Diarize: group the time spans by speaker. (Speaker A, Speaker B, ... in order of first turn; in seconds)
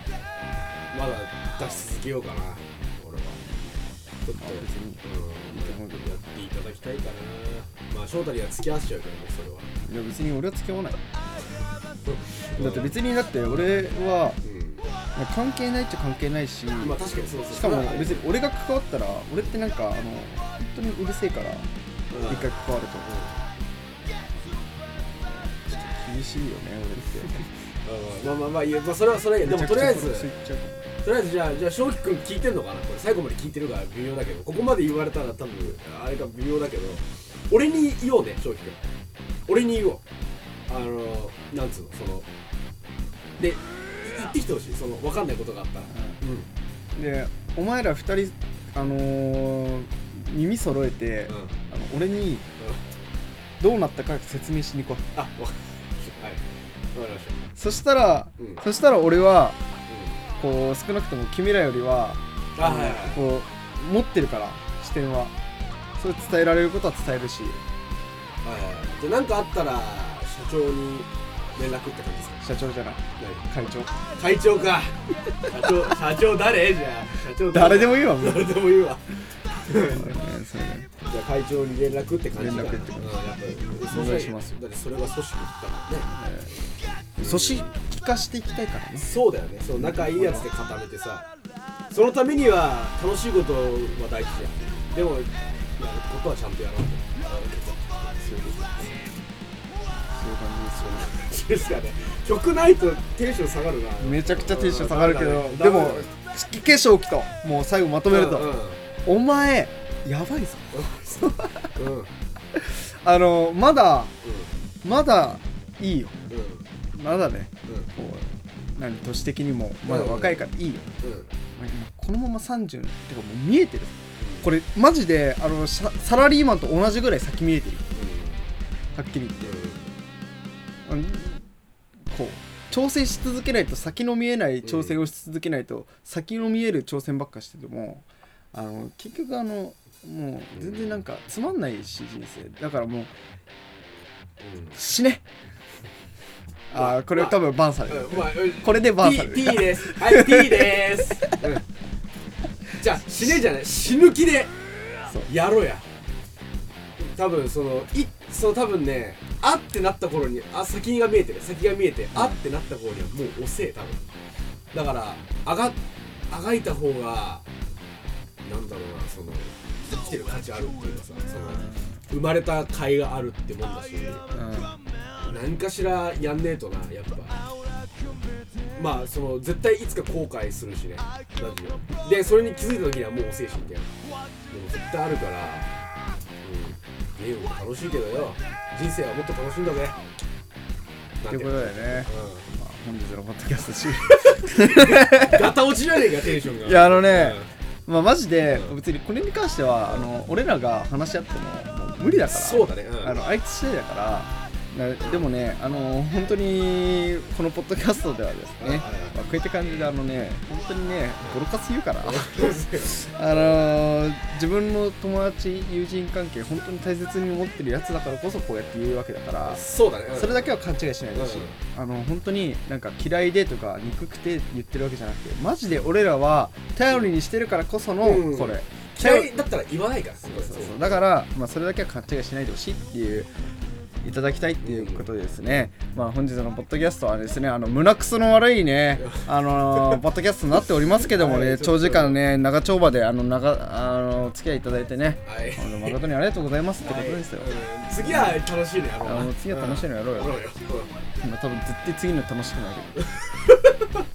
Speaker A: 0.9-3.4, 4.2-9.7, 12.0-13.9, 14.4-14.8, 16.8-18.2, 22.1-22.5, 23.0-23.4, 27.8-30.3, 31.0-38.8, 39.5-40.0, 40.7-42.3, 43.4-46.5, 55.1-57.4, 59.9-60.2, 62.5-63.2, 68.4-72.4, 73.2-73.5, 74.1-80.2, 81.0-86.1, 87.2-87.7, 89.0-91.3, 91.9-99.0, 100.8-106.1, 108.1-108.8, 110.7-111.2, 111.8-112.1, 114.2-114.5, 116.3-116.7, 119.8-120.5, 121.0-121.3, 124.2-124.5, 127.9-128.5, 129.4-129.9, 134.6-134.9, 140.5-141.0, 144.4-144.7, 146.7-151.7, 152.8-154.5, 155.2-155.9, 157.0-164.0, 164.7-167.4, 168.4-174.2, 175.2-177.5, 178.7-183.9, 184.5-185.7, 186.4-190.0, 191.2-192.4, 194.0-197.5, 202.3-203.2, 205.0-205.3, 208.6-209.2, 212.0-213.6, 219.5-220.5, 221.1-221.6, 228.0-231.1, 234.6-235.1, 239.0-240.0, 240.6-242.2, 245.2-246.0, 246.8-250.9, 253.0-254.0
Speaker B: 4.4-6.1, 9.8-11.0, 12.6-14.4, 15.1-21.7, 22.2-23.1, 24.9-27.4, 29.4-30.9, 45.9-46.2, 47.0-52.5, 53.6-55.1, 57.5-59.6, 60.4-65.3, 66.0-67.6, 72.4-74.0, 77.5-78.5, 79.7-80.9, 82.3-84.5, 86.1-86.6, 87.2-89.1, 89.8-90.5, 98.2-98.6, 99.9-101.1, 104.0-108.5, 109.0-111.8, 112.5-114.1, 114.8-116.2, 116.9-120.9, 121.5-127.8, 128.9-129.5, 130.8-131.4, 132.1-143.1, 144.7-145.2, 146.7-151.4, 162.1-162.4, 171.3-171.9, 174.3-174.7, 191.3-195.5, 196.4-219.6, 220.1-229.3, 230.2-233.3, 234.0-248.4, 249.0-250.3, 251.2-253.1